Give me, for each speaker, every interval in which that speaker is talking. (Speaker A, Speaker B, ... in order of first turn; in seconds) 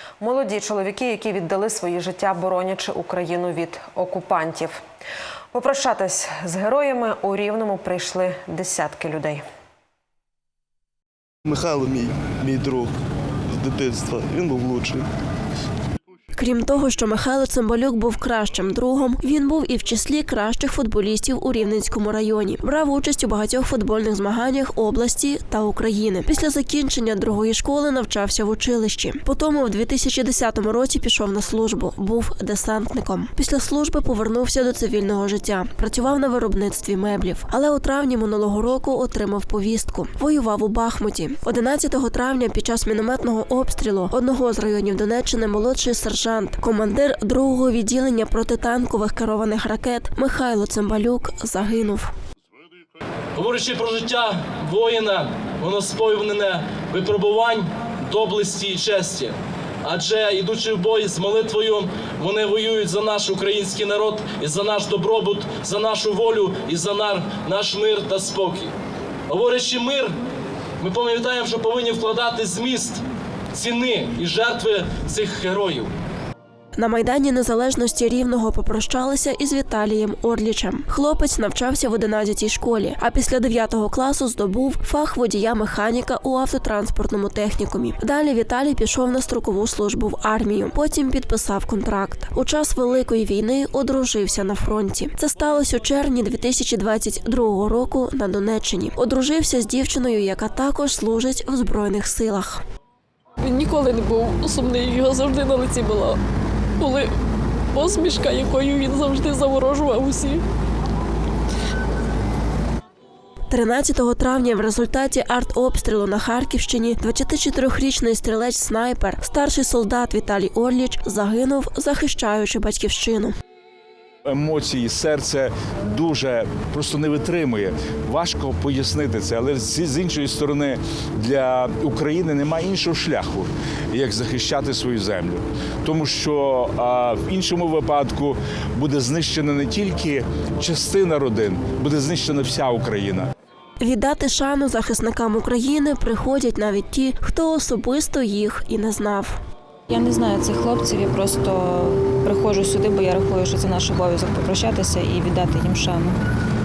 Speaker A: 0.2-4.8, 5.5-9.4
Speaker B: 11.4-12.9, 13.5-15.1
Speaker C: 16.4-52.1, 76.8-102.6, 113.5-123.3, 143.8-149.4
Speaker D: 53.4-68.7, 69.3-70.1, 70.8-75.9
Speaker E: 103.5-106.2, 106.8-107.1, 107.7-110.4
Speaker F: 124.3-143.3
Speaker G: 149.9-156.1